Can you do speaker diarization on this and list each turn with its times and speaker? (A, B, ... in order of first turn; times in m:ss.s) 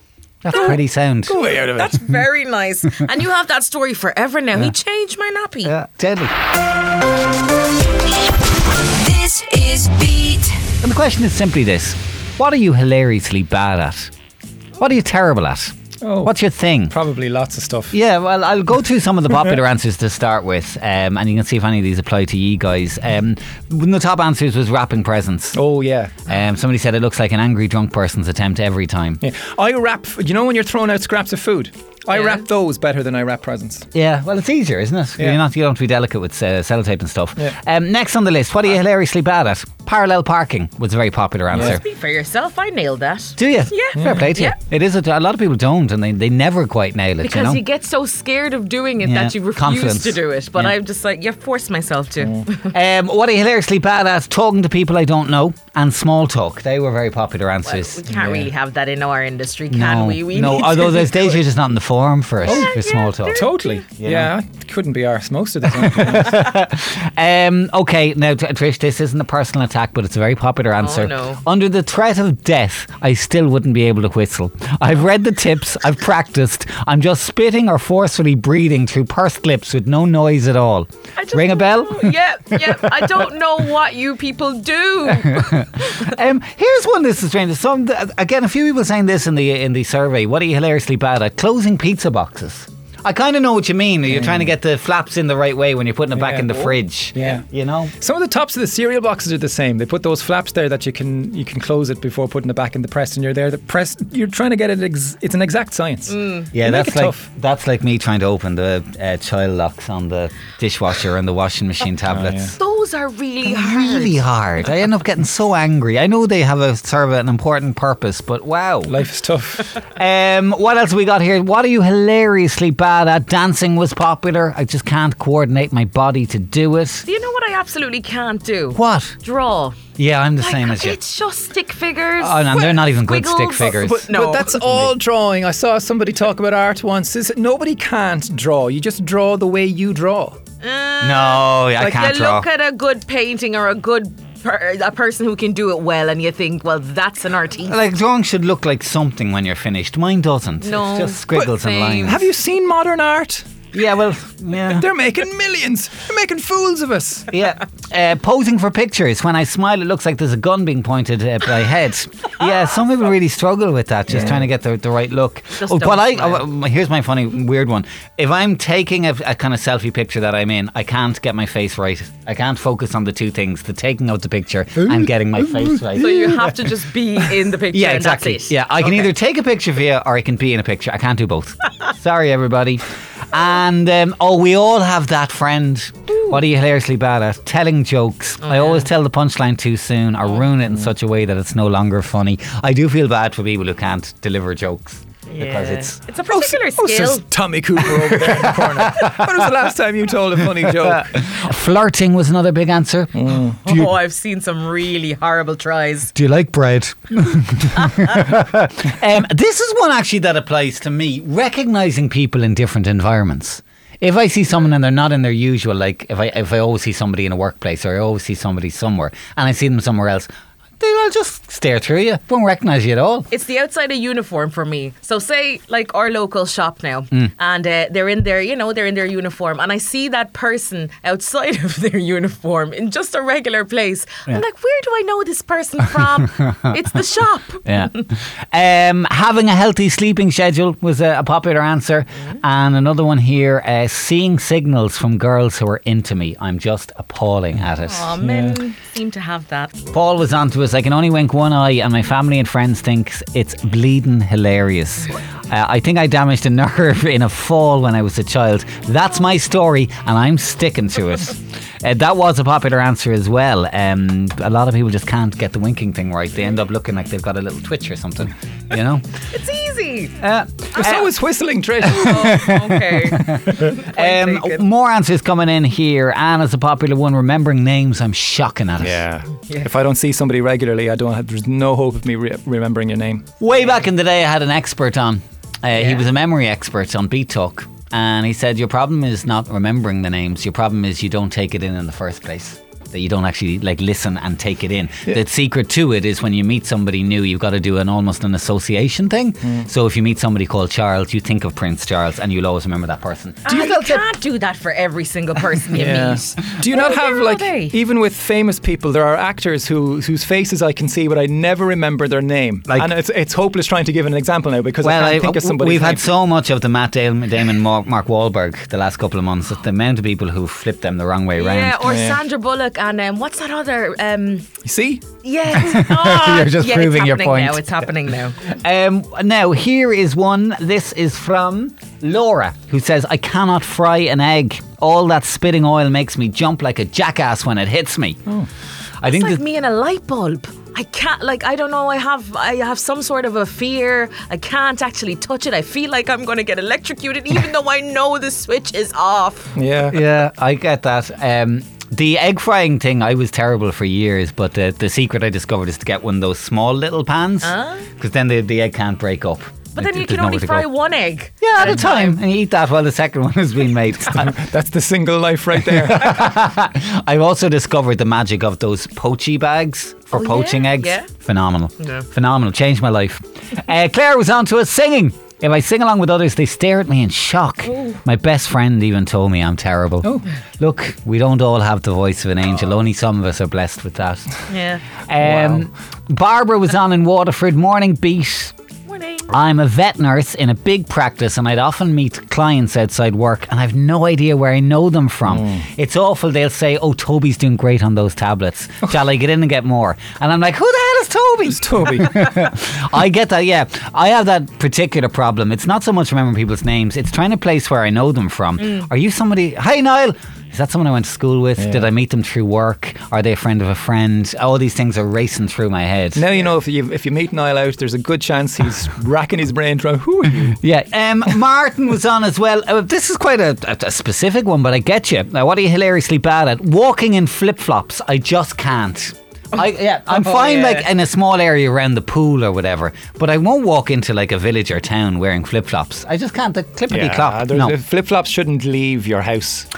0:00.4-0:01.4 A
0:00.5-0:00.8 B
0:00.5-0:02.1 C
0:01.3-0:05.7 B
0:05.6-0:06.3 A
0:09.0-0:10.6 B
0:10.8-0:14.1 A
0:14.8-0:17.0 A
0:16.0-0:16.3 C
0:16.9-0:18.0 C
0:17.9-0:25.6 A
0:25.6-0:26.2 C
0:26.3-0:29.2 A
0:29.2-0:33.9 C
0:32.2-0:32.4 B
0:33.9-0:41.8 A
0:41.5-0:41.8 C
0:41.6-0:44.6 B
0:43.4-0:47.6 A
0:44.0-0:44.3 C
0:47.2-0:52.7 B
0:49.0-0:50.8 A
0:52.7-0:58.0 A
0:57.6-1:01.3 B
0:58.1-0:58.5 C
0:59.7-1:03.5 A
1:02.5-1:03.8 B
1:03.4-1:06.4 C
1:04.0-1:04.3 A
1:05.8-1:22.9 A
1:10.8-1:11.4 B
1:21.2-1:25.6 B
1:25.1-1:37.9 A
1:34.2-1:34.4 C
1:36.2-1:37.4 C
1:38.0-1:47.2 C
1:46.1-1:46.5 B
1:46.5-1:52.5 A
1:52.1-1:52.5 C
1:52.5-1:54.2 B
1:53.5-1:58.9 A
1:58.9-1:59.8 C
1:59.9-2:07.1 A
2:07.1-2:09.8 B
2:08.7-2:09.2 A
2:10.0-2:11.0 A
2:10.4-2:14.9 B
2:12.2-2:14.1 A
2:13.8-2:20.4 C
2:20.6-2:27.8 B
2:21.0-2:22.5 A
2:27.6-2:32.2 A
2:30.6-2:32.2 B
2:32.0-2:33.5 C
2:33.7-2:34.8 A
2:34.8-2:37.3 C
2:37.3-2:56.6 A
2:44.1-2:44.4 C
2:45.6-2:46.4 B
2:55.9-2:59.1 B
2:57.7-3:16.0 A
3:08.4-3:08.9 B
3:15.3-3:17.3 B
3:16.3-3:21.1 C
3:20.9-3:23.9 A
3:23.2-3:23.6 C
3:23.6-3:26.1 B
3:26.1-3:40.3 A
3:40.8-3:43.3 A
3:43.3-3:57.8 B
3:57.6-4:08.1 A
4:07.8-4:09.8 B
4:08.2-4:08.6 C
4:09.9-4:29.1 A
4:29.3-4:30.2 B
4:30.2-4:31.1 A
4:30.8-4:32.3 C
4:31.9-4:34.6 B
4:31.9-4:39.0 A
4:38.8-4:43.2 C
4:43.4-5:04.0 A
4:45.8-4:46.0 B
5:03.5-5:07.8 B
5:05.8-5:16.0 C
5:14.8-5:21.8 A
5:21.4-5:24.5 B
5:21.8-5:22.2 C
5:24.6-5:25.0 C
5:25.2-5:28.4 B
5:25.6-5:27.7 A
5:28.5-5:38.2 A
5:39.0-5:39.4 A
5:39.0-5:49.5 B
5:49.6-5:50.0 C
5:49.9-6:00.7 A
5:57.4-5:57.9 B
5:59.8-6:02.2 B
6:01.4-6:04.4 A
6:04.2-6:06.2 C
6:05.7-6:24.3 A
6:10.1-6:11.1 B
6:17.7-6:18.0 B
6:24.5-6:24.8 B
6:25.1-6:28.5 A
6:25.2-6:25.6 C
6:28.9-6:29.3 B
6:29.3-6:56.2 A
6:35.3-6:35.6 C
6:41.5-6:42.2 C
6:51.6-6:51.8 C
6:56.2-7:00.6 C
7:00.6-7:17.8 A
7:10.1-7:10.9 B
7:16.9-7:19.7 C